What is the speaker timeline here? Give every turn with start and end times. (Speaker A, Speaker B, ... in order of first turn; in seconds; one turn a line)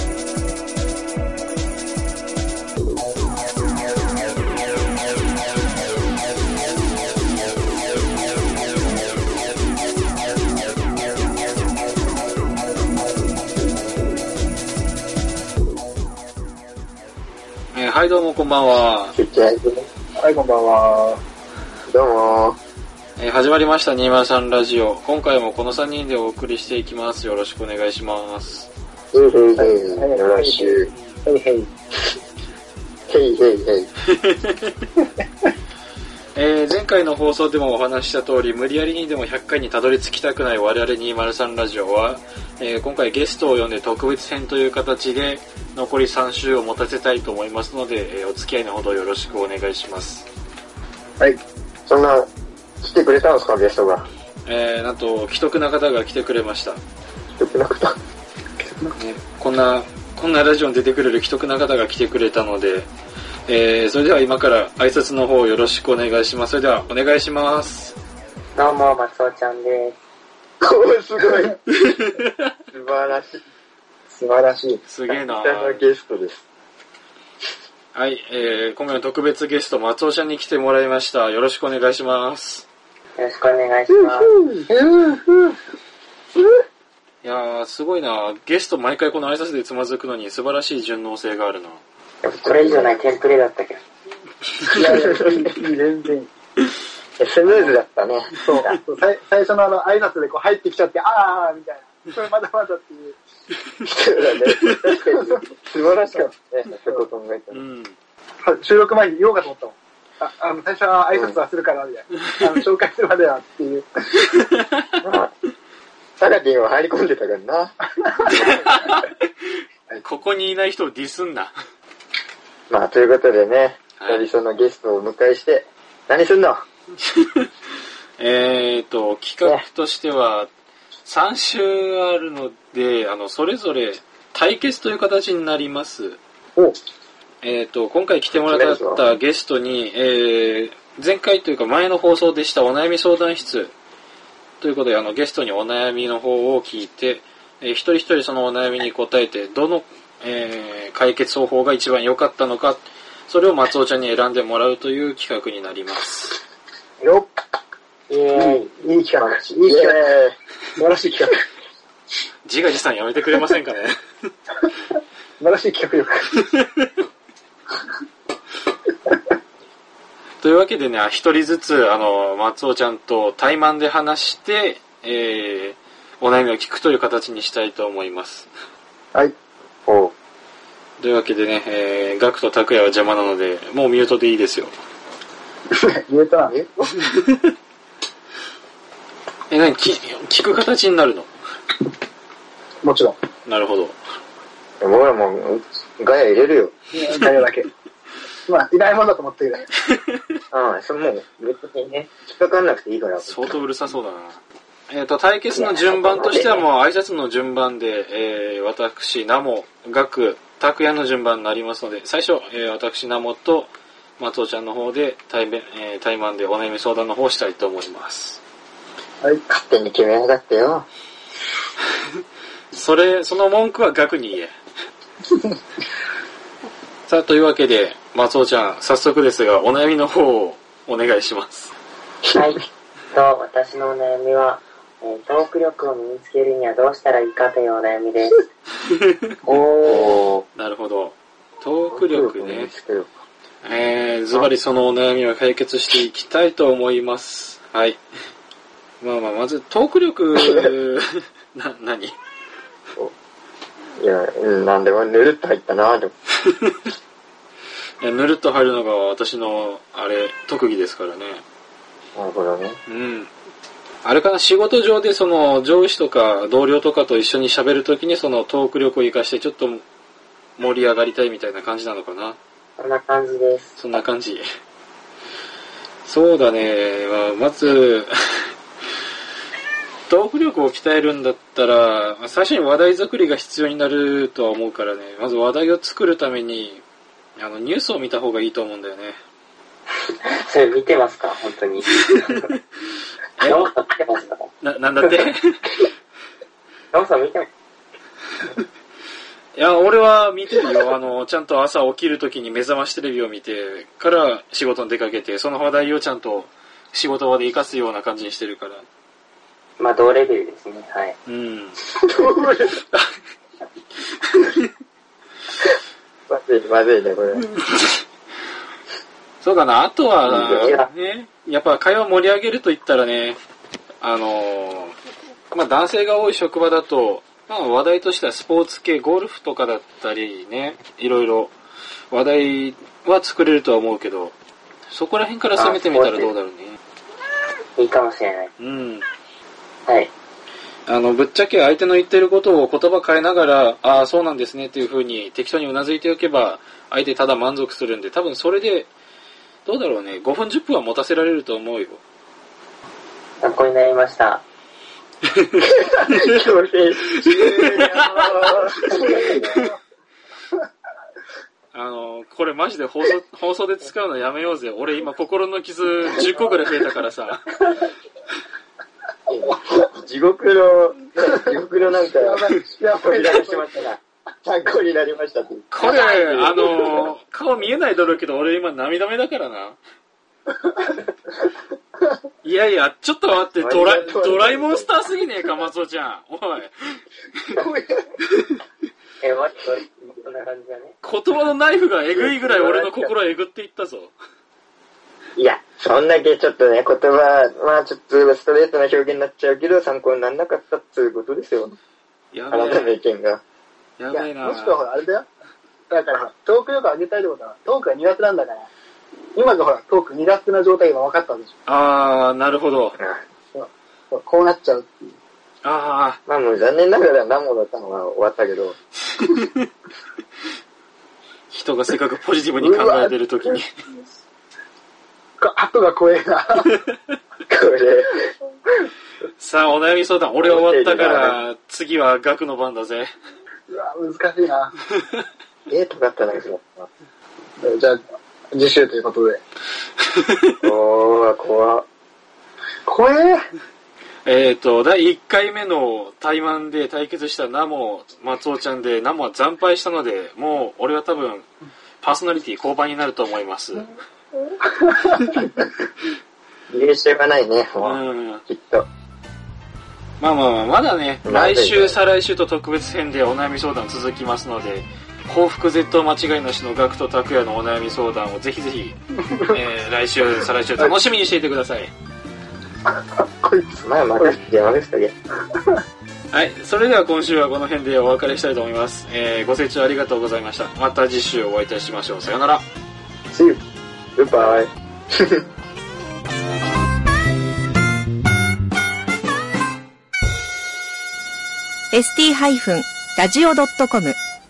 Speaker A: 17.7-19.1
Speaker B: 19.1-19.9
Speaker C: 20.2-21.2
Speaker B: 21.9-22.6
Speaker A: 23.2-28.7
Speaker B: 29.1-30.9
Speaker C: 29.6-31.7
Speaker B: 33.1-33.9
Speaker A: 34.1-34.9
Speaker A: 36.4-50.3
Speaker B: 51.9-52.3
Speaker B: 52.8-54.1
Speaker A: 54.5-56.8
Speaker B: 57.4-58.0
Speaker A: 59.0-62.9
Speaker A: 63.5-68.0
Speaker D: 68.5-70.0
Speaker B: 70.6-71.6
Speaker A: 71.8-72.3
Speaker B: 72.7-73.4
Speaker C: 74.1-74.8
Speaker A: 74.9-75.8
Speaker B: 75.1-76.4
Speaker A: 77.9-82.7
Speaker D: 83.2-84.3
Speaker C: 84.5-85.5
Speaker A: 87.2-91.8
Speaker B: 92.2-93.1
Speaker D: 92.4-93.8
Speaker C: 94.7-96.3
Speaker B: 94.8-95.4
Speaker B: 97.2-98.8
Speaker C: 97.5-97.8
Speaker C: 98.4-103.2
Speaker B: 103.8-107.6
Speaker C: 105.1-105.4
Speaker A: 107.5-108.0
Speaker C: 108.4-113.9
Speaker A: 114.4-114.8
Speaker B: 115.0-115.3
Speaker B: 116.2-117.7
Speaker C: 118.1-118.5
Speaker B: 118.2-118.7
Speaker A: 118.3-119.1
Speaker A: 120.0-121.5
Speaker B: 122.7-126.6
Speaker A: 124.0-124.2
Speaker A: 127.1-127.5
Speaker A: 128.2-130.5
Speaker A: 131.1-136.2
Speaker A: 137.4-143.7
Speaker B: 138.3-139.0
Speaker A: 144.6-156.4
Speaker C: 157.0-157.3
Speaker D: 158.1-158.7
Speaker C: 158.4-160.1
Speaker B: 159.2-160.3
Speaker C: 160.8-161.4
Speaker A: 162.4-163.9
Speaker C: 165.4-166.4
Speaker A: 166.5-166.9
Speaker A: 170.4-178.5
Speaker B: 179.9-180.1
Speaker A: 181.0-184.7
Speaker C: 185.7-186.5
Speaker B: 186.5-187.0
Speaker A: 189.5-191.3
Speaker C: 192.8-193.2
Speaker A: 193.5-194.0
Speaker B: 194.8-196.7
Speaker C: 196.9-197.7
Speaker C: 198.5-199.7
Speaker B: 200.5-203.6
Speaker A: 203.2-218.4
Speaker B: 205.5-206.6
Speaker B: 219.5-220.9
Speaker A: 222.7-224.5
Speaker A: 227.1-231.7
Speaker D: 232.3-238.4
Speaker D: 239.4-240.2
Speaker B: 239.8-240.4
Speaker A: 240.6-242.7
Speaker B: 241.9-243.1
Speaker A: 243.6-248.0
Speaker A: 249.0-252.2
Speaker B: 250.3-250.7
Speaker B: 254.0-256.1
Speaker A: 256.5-256.9
Speaker A: 258.0-261.4
Speaker B: 262.2-262.8
Speaker A: 262.9-263.3
Speaker A: 264.0-269.8
Speaker A: 270.6-272.4
Speaker D: 272.8-273.8
Speaker A: 273.8-274.4
Speaker A: 276.1-278.4
Speaker A: 280.1-286.8
Speaker A: 287.4-289.2
Speaker D: 290.4-292.4
Speaker A: 293.4-293.7
Speaker D: 293.4-294.5
Speaker A: 294.6-295.7
Speaker D: 296.9-297.5
Speaker A: 299.6-308.9
Speaker D: 309.8-311.2
Speaker A: 311.3-311.8
Speaker B: 312.1-312.7
Speaker A: 314.3-314.6
Speaker B: 316.3-317.4
Speaker A: 317.6-317.9
Speaker A: 319.4-323.4
Speaker B: 320.3-320.8
Speaker D: 320.6-320.9
Speaker A: 324.0-324.9
Speaker A: 325.5-331.5
Speaker A: 332.1-334.4
Speaker A: 334.9-336.8
Speaker D: 335.6-336.3
Speaker D: 337.8-338.5
Speaker A: 338.6-339.1
Speaker D: 339.9-340.1
Speaker A: 340.9-348.9
Speaker A: 349.6-352.0
Speaker D: 353.4-354.4
Speaker A: 355.4-355.7
Speaker B: 355.8-359.5
Speaker A: 357.1-358.7
Speaker A: 361.7-367.5
Speaker B: 369.3-377.1
Speaker C: 371.9-373.9
Speaker A: 375.7-379.8
Speaker C: 380.6-381.0
Speaker A: 382.4-387.0
Speaker B: 383.6-384.9
Speaker C: 387.5-388.1
Speaker D: 389.2-391.0
Speaker A: 391.0-394.1
Speaker B: 392.1-393.1
Speaker B: 395.4-401.8
Speaker A: 402.3-403.0
Speaker B: 402.5-403.4
Speaker A: 404.0-404.8
Speaker C: 404.1-405.3
Speaker C: 405.9-408.7
Speaker C: 409.4-411.5
Speaker A: 411.7-413.0
Speaker C: 413.5-415.2
Speaker A: 415.6-416.2
Speaker B: 416.3-418.8
Speaker A: 419.2-419.5
Speaker A: 421.5-423.7
Speaker B: 422.6-423.1
Speaker C: 425.4-426.7
Speaker B: 427.5-428.2
Speaker A: 429.4-433.1
Speaker B: 430.4-431.4
Speaker C: 433.7-434.7
Speaker B: 435.7-436.9
Speaker C: 437.6-438.0
Speaker C: 438.5-439.4
Speaker A: 440.2-440.6
Speaker B: 440.6-441.9
Speaker C: 442.9-443.4
Speaker A: 444.2-451.5
Speaker A: 452.0-453.9
Speaker C: 454.8-455.4
Speaker B: 456.7-458.9
Speaker A: 457.8-458.4
Speaker A: 460.2-471.9
Speaker B: 461.2-462.0
Speaker C: 469.3-469.5
Speaker C: 472.9-474.4
Speaker B: 473.8-475.1
Speaker C: 475.5-475.8
Speaker A: 476.3-482.7
Speaker B: 484.2-485.4
Speaker E: 491.9-494.2